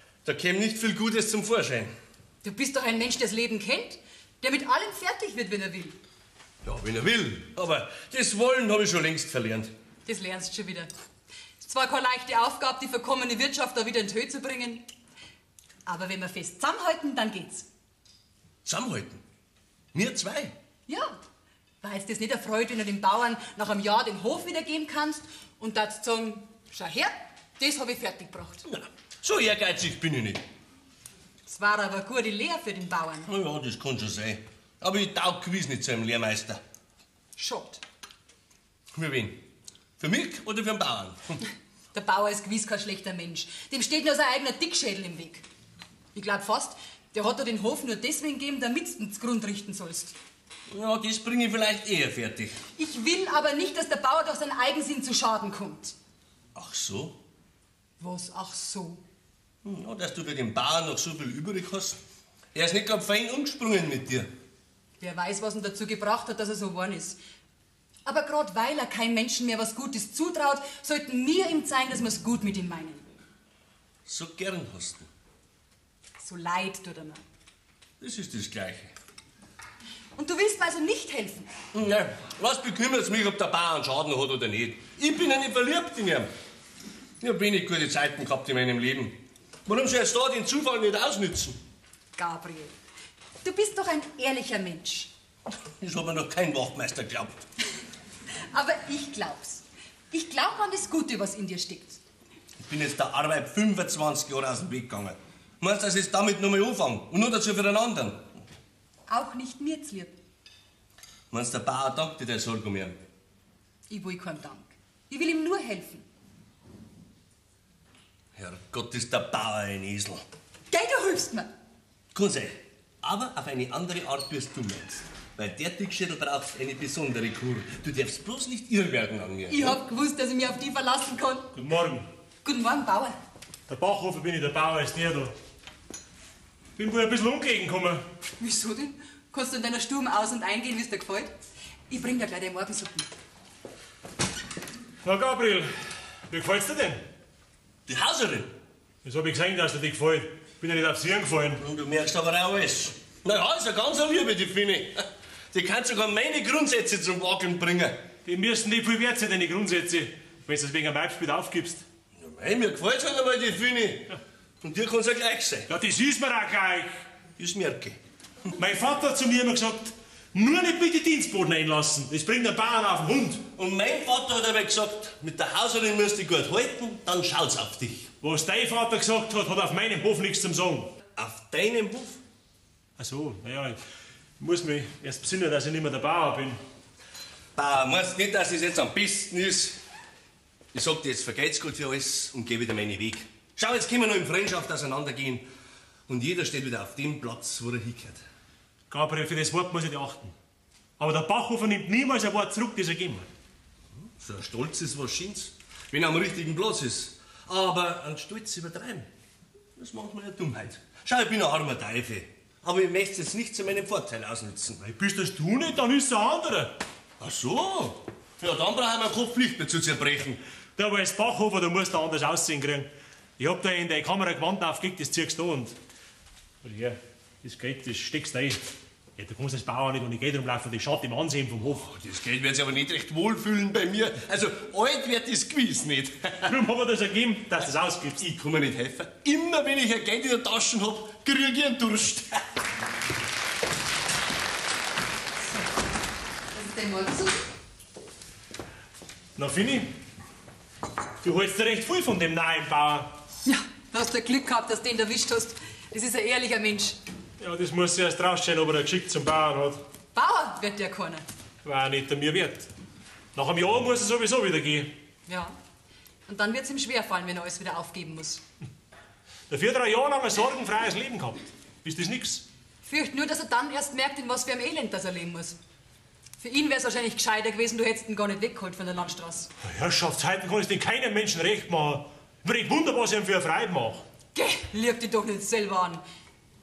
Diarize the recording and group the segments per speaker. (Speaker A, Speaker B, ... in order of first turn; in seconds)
Speaker A: 0.2-1.9, 6.6-9.7, 18.6-19.2, 19.9-20.5, 28.6-30.4, 33.2-36.6, 38.9-39.4, 40.0-41.4, 50.7-52.6, 56.5-57.2, 59.6-62.0, 62.5-64.3, 74.0-75.1, 78.0-78.9, 81.7-86.3, 87.2-89.1, 89.7-91.6, 95.8-97.4, 102.6-108.2, 111.3-113.1, 118.3-120.2, 122.1-129.8, 147.9-148.5, 151.6-158.0, 162.2-165.7, 167.4-168.5, 173.6-178.1, 181.2-182.2, 187.6-189.8, 190.7-195.4, 196.1-198.2, 204.2-209.1, 209.8-214.8, 217.2-220.4, 231.8-236.5, 238.2-242.4
Speaker B: 2.4-6.0, 10.1-10.9, 11.6-14.8, 15.8-17.7, 20.9-21.1, 21.8-28.6, 31.5-33.3, 37.4-37.8, 41.9-45.4, 46.1-50.1, 52.8-55.9, 58.0-59.0, 65.0-67.2, 68.0-73.1, 76.2-77.2, 80.2-81.5, 92.2-92.8, 93.4-95.1, 98.5-102.0, 109.1-110.1, 113.9-116.0, 120.7-121.5, 129.5-131.5, 132.4-133.2, 138.4-141.3, 141.9-143.1, 246.5-247.4, 253.4-257.0, 260.1-261.2, 265.3-265.5, 266.3-268.4, 272.9-275.6, 276.4-279.5, 284.3-286.0
Speaker C: 131.5-132.1, 133.7-135.3, 136.8-138.0, 145.0-145.7, 146.3-147.0, 149.0-151.6, 158.2-161.8, 165.7-167.0, 168.6-173.4, 178.2-180.9, 183.0-183.8, 184.4-186.6, 198.9-200.3, 201.0-203.3, 214.8-216.7, 220.8-225.7, 226.6-228.6, 229.2-231.8, 236.4-238.2, 249.4-249.9, 251.2-253.1, 257.4-259.8, 261.6-262.7, 263.3-264.9, 269.5-272.4, 279.6-284.0